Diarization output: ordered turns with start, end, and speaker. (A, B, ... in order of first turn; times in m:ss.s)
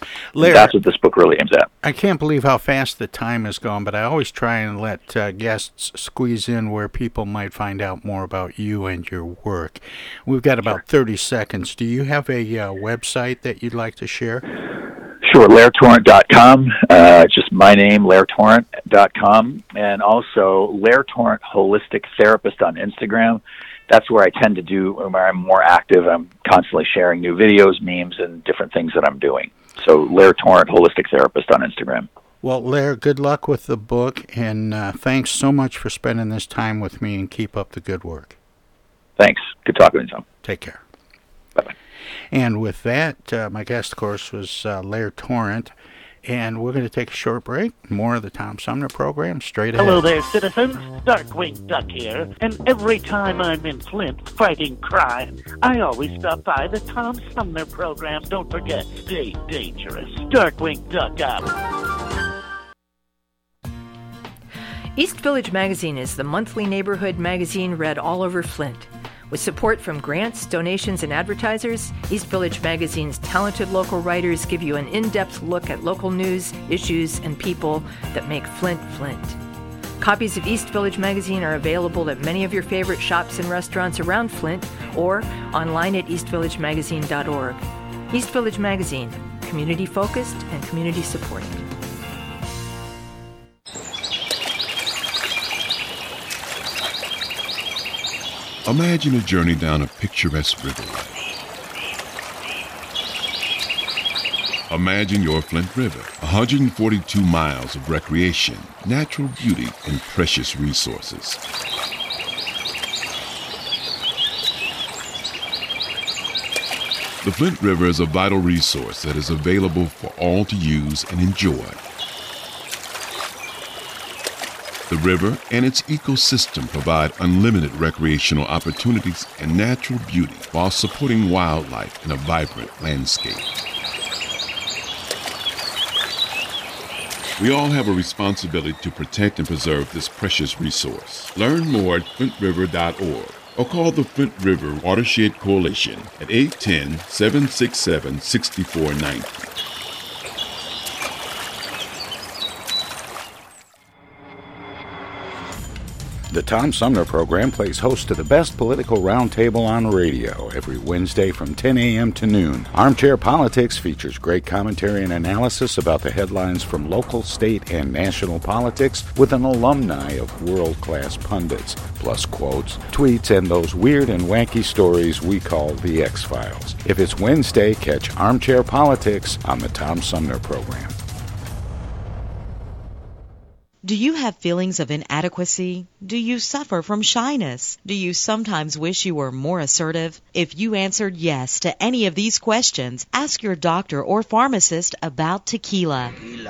0:00.3-0:00.7 A
0:00.4-0:01.7 B
0:01.8-0:14.4 A
0:15.2-0:32.1 B
0:32.4-0:38.4 A
0:39.2-0:40.2 B
0:40.4-0:40.8 A
0:42.3-0:45.7 A
0:46.2-0:50.1 A
0:49.8-1:01.4 C
1:04.9-1:19.4 D
1:20.0-1:31.6 D
1:38.6-1:41.2 E
1:44.7-1:51.4 E
1:57.2-2:01.8 E
2:04.9-2:13.5 E
2:17.4-2:29.4 E
2:36.3-3:01.0 F
3:03.8-3:16.1 G